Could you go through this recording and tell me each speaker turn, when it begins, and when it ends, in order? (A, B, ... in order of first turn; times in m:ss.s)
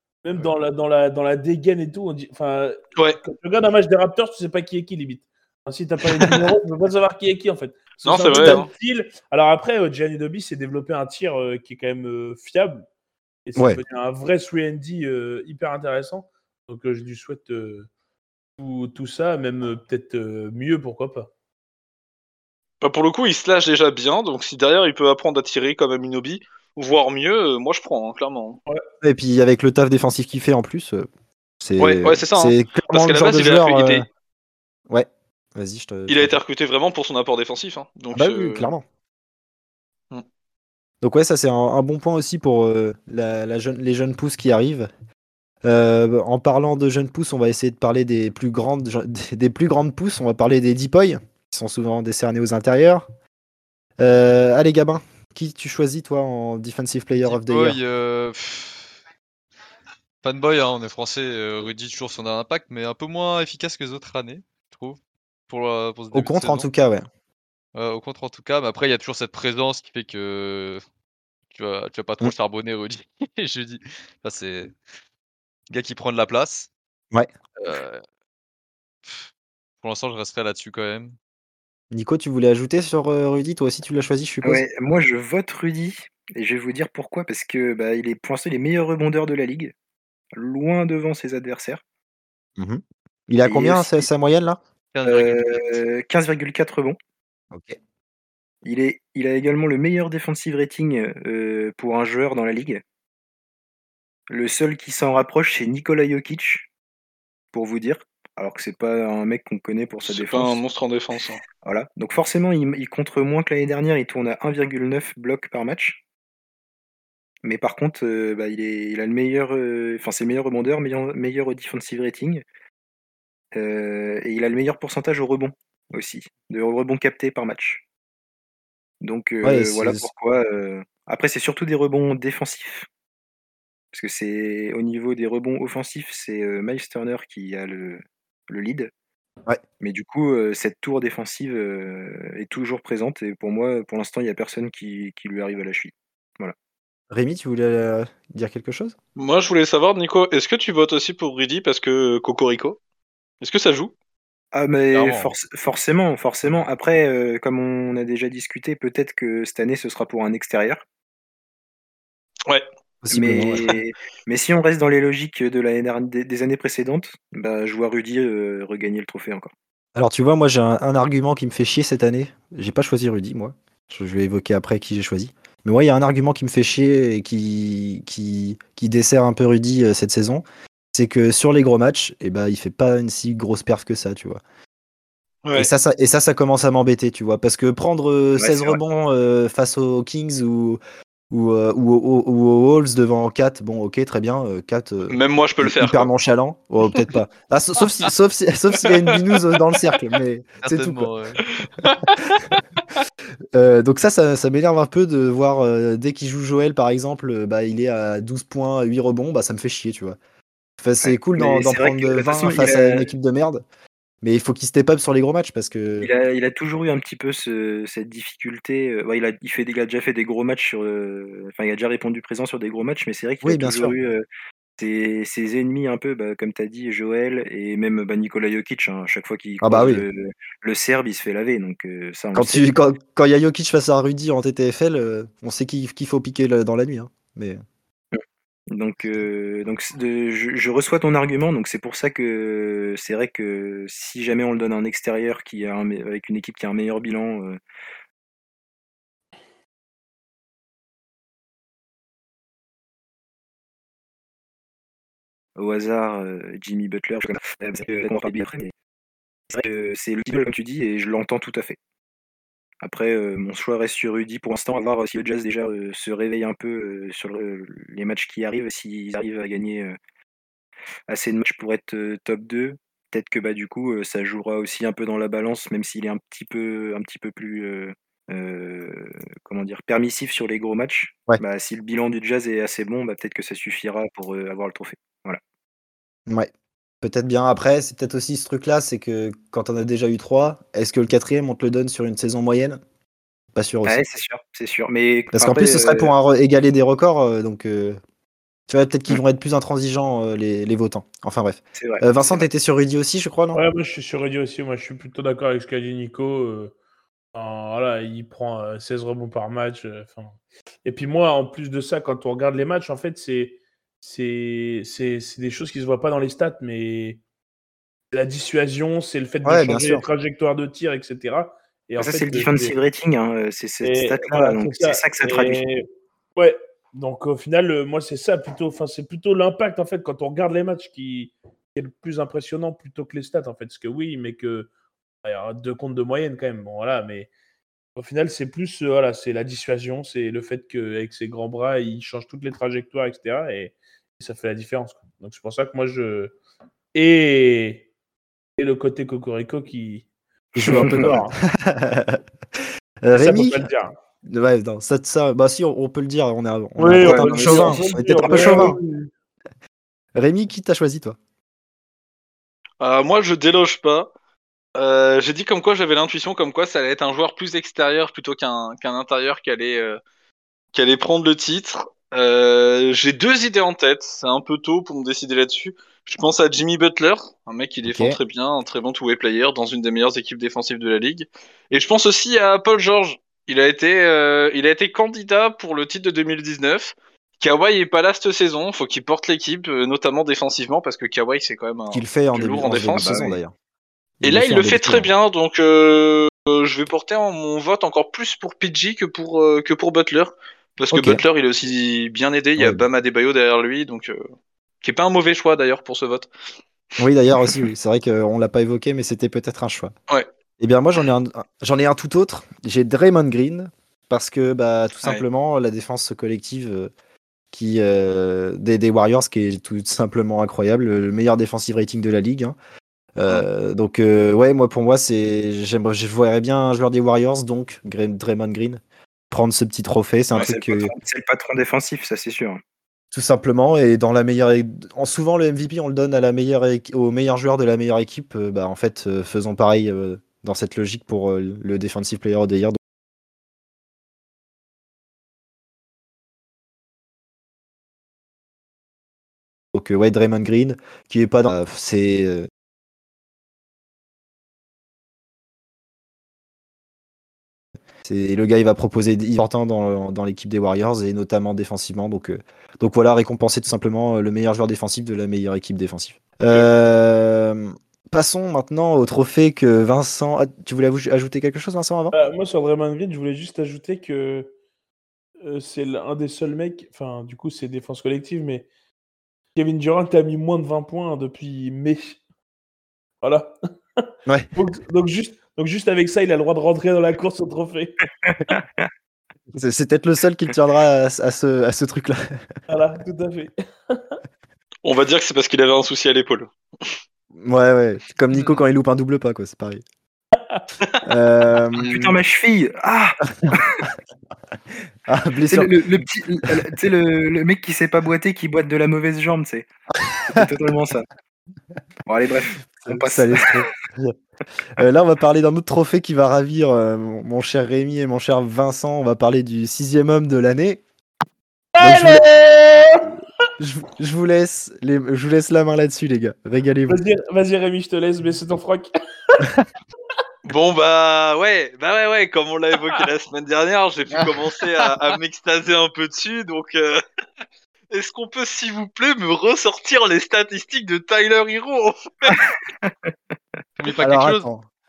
0:00.2-0:12.8 A
0:08.0-0:08.7 B
0:08.4-0:08.6 C
0:13.4-0:17.9 A
0:13.6-0:13.8 C
0:18.6-0:21.3 A
0:22.8-0:28.6 B
0:29.0-0:31.1 C
0:31.6-0:34.1 C
0:31.8-0:34.0 B
0:34.9-0:36.3 C
0:36.1-0:38.7 B
0:38.1-0:38.8 C
0:41.0-0:44.9 C
0:45.6-0:53.0 C
0:54.0-0:57.8 C
0:57.2-0:58.9 D
1:00.2-1:06.7 D
1:06.1-1:07.0 C
1:07.7-1:10.8 D
1:11.5-1:14.7 D
1:15.7-1:16.7 D
1:17.6-1:18.0 D
1:19.8-1:21.2 D
1:21.9-1:24.6 C
1:24.4-1:29.7 E
1:30.3-1:31.8 E
1:32.6-1:34.6 C
1:33.4-1:34.1 E
1:34.9-1:35.8 D
1:35.0-1:37.0 E
1:37.5-1:37.8 C
1:38.6-1:42.8 E
1:44.3-1:46.7 E
1:47.5-1:50.6 E
1:50.0-1:51.4 B
1:51.6-1:56.0 E
1:57.4-2:02.4 E
2:03.5-2:07.8 E
2:09.0-2:12.9 E
2:09.4-2:10.1 C
2:13.9-2:18.9 E
2:19.8-2:26.5 E
2:27.1-2:29.0 C
2:29.2-2:32.8 B
2:33.4-2:33.9 B
2:34.5-2:40.8 E
2:34.9-2:35.3 D
2:43.0-2:43.7 C
2:43.1-2:49.5 E
2:49.9-3:04.4 C
3:05.4-3:05.7 B
3:05.5-3:10.8 C
3:08.4-3:08.8 E
3:11.3-3:21.1 C
3:15.1-3:16.1 B
3:18.8-3:19.4 B
3:20.6-3:21.4 D
3:21.6-3:22.0 B
3:23.5-3:30.2 C
3:30.8-3:33.6 C
3:31.0-3:33.1 E
3:34.2-3:36.1 C
3:36.0-3:44.2 E
3:43.4-3:43.9 C
3:44.8-3:52.6 E
3:49.6-3:50.0 C
3:52.3-3:57.6 C
3:58.7-4:07.6 E
4:15.6-4:18.7 E
4:19.5-4:21.8 E
4:22.8-4:30.0 E
4:31.1-4:45.4 E
4:47.0-4:52.8 C
4:53.5-4:54.0 C
4:53.8-4:56.1 E
4:55.3-4:58.0 C
4:58.7-5:03.6 C
5:01.8-5:02.4 E
5:03.5-5:06.7 A
5:07.3-5:17.2 A
5:18.1-5:22.7 A
5:19.4-5:20.0 C
5:22.0-5:25.6 E
5:23.8-5:25.8 A
5:26.4-5:34.7 A
5:35.2-5:37.3 A
5:38.0-5:46.3 A
5:46.9-5:47.8 A
5:48.6-5:50.0 A
5:50.5-5:52.2 C
5:50.6-5:51.4 A
5:50.6-5:51.1 E
5:53.0-5:53.6 C
5:53.2-5:53.9 A
5:54.2-5:58.8 C
5:56.8-5:59.1 A
5:57.0-5:58.7 E
6:00.2-6:01.2 C
6:02.8-6:04.1 B
6:04.8-6:10.0 B
6:10.7-6:33.1 B
6:17.8-6:18.2 C
6:31.9-6:33.5 C
6:32.9-6:33.4 E
6:34.2-6:35.1 C
6:34.2-6:44.2 B
6:40.9-6:41.2 C
6:42.6-6:42.8 C
6:44.8-6:46.3 B
6:47.0-6:49.9 C
6:50.6-6:56.9 C
6:57.5-7:02.6 C
7:03.2-7:10.9 C
7:10.3-7:12.6 E
7:13.1-7:22.8 C
7:29.7-7:32.5 C
7:38.0-7:52.1 C
7:52.1-7:54.5 A
7:55.4-7:58.7 A
7:59.5-8:02.2 A
8:03.2-8:08.0 A
8:08.2-8:08.9 E
8:09.5-8:12.4 C
8:12.7-8:14.2 A
8:14.8-8:16.9 B
8:17.3-8:19.8 C
8:21.0-8:22.1 C
8:21.8-8:23.8 E
8:25.1-8:25.9 C
8:25.5-8:29.7 E
8:30.1-8:30.5 C
8:30.3-8:31.1 E
8:32.0-8:33.7 E
8:32.8-8:34.1 C
8:34.8-8:40.8 C
8:41.8-8:43.0 A
8:41.8-8:42.2 C
8:43.6-8:47.0 C
8:46.9-8:49.4 A
8:50.4-8:57.0 B
8:57.9-9:02.4 B
9:02.8-9:03.1 E
9:03.8-9:04.5 D
9:03.9-9:04.6 C